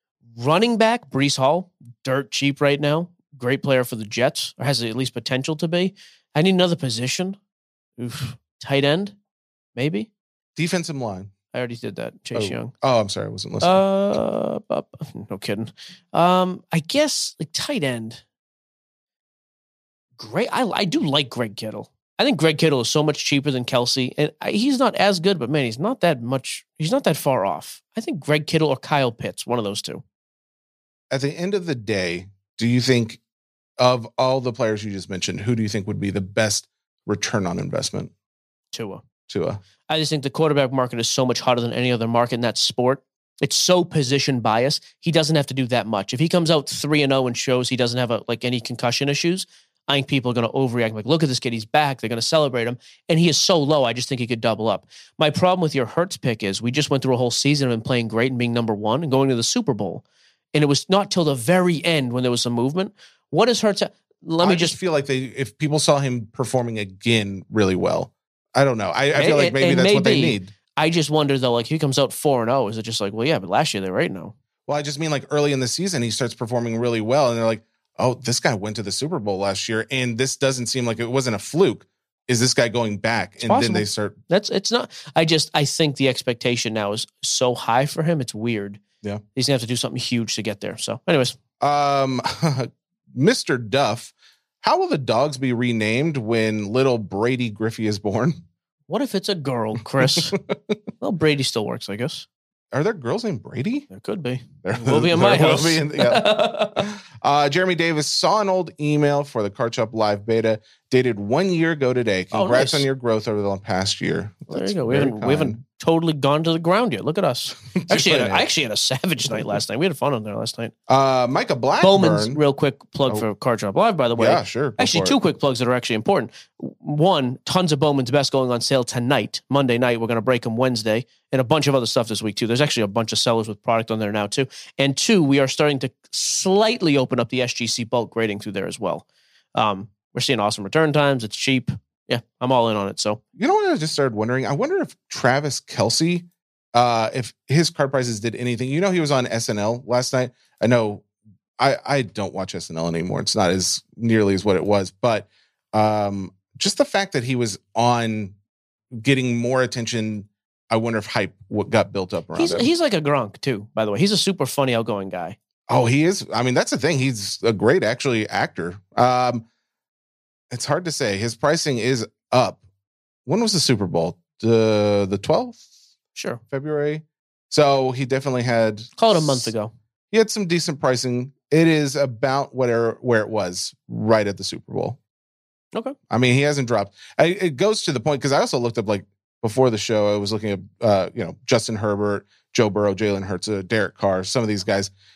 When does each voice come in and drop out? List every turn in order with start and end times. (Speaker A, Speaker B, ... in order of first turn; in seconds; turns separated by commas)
Speaker A: 0.3-7.4, Speaker A: 8.0-9.1, Speaker A: 9.8-10.1, Speaker B: 10.6-11.3, Speaker A: 11.5-12.7, Speaker B: 12.3-13.8, Speaker A: 13.6-18.2, Speaker A: 20.2-30.0, Speaker B: 31.1-33.2, Speaker B: 33.8-38.1, Speaker A: 38.7-39.0, Speaker B: 39.3-39.6, Speaker A: 39.9-64.8, Speaker B: 64.4-70.5, Speaker A: 69.1-74.3, Speaker B: 74.7-84.2, Speaker A: 83.4-88.8, Speaker A: 89.3-91.4, Speaker B: 91.6-98.4, Speaker A: 98.9-100.4, Speaker B: 100.0-100.7, Speaker A: 101.0-102.3, Speaker B: 102.7-103.9, Speaker A: 103.9-106.9, Speaker B: 104.6-115.6, Speaker A: 112.3-112.9, Speaker A: 114.5-120.7, Speaker B: 117.7-118.5, Speaker B: 120.9-122.4, Speaker A: 121.8-143.2, Speaker B: 124.2-125.2, Speaker B: 143.3-151.0, Speaker B: 151.6-158.3, Speaker B: 158.9-162.7, Speaker A: 162.3-165.4, Speaker B: 165.7-169.4, Speaker B: 170.5-172.6, Speaker B: 173.3-175.6, Speaker A: 176.1-176.4, Speaker B: 176.5-179.5, Speaker A: 179.0-179.7, Speaker B: 180.1-185.0, Speaker B: 186.1-194.9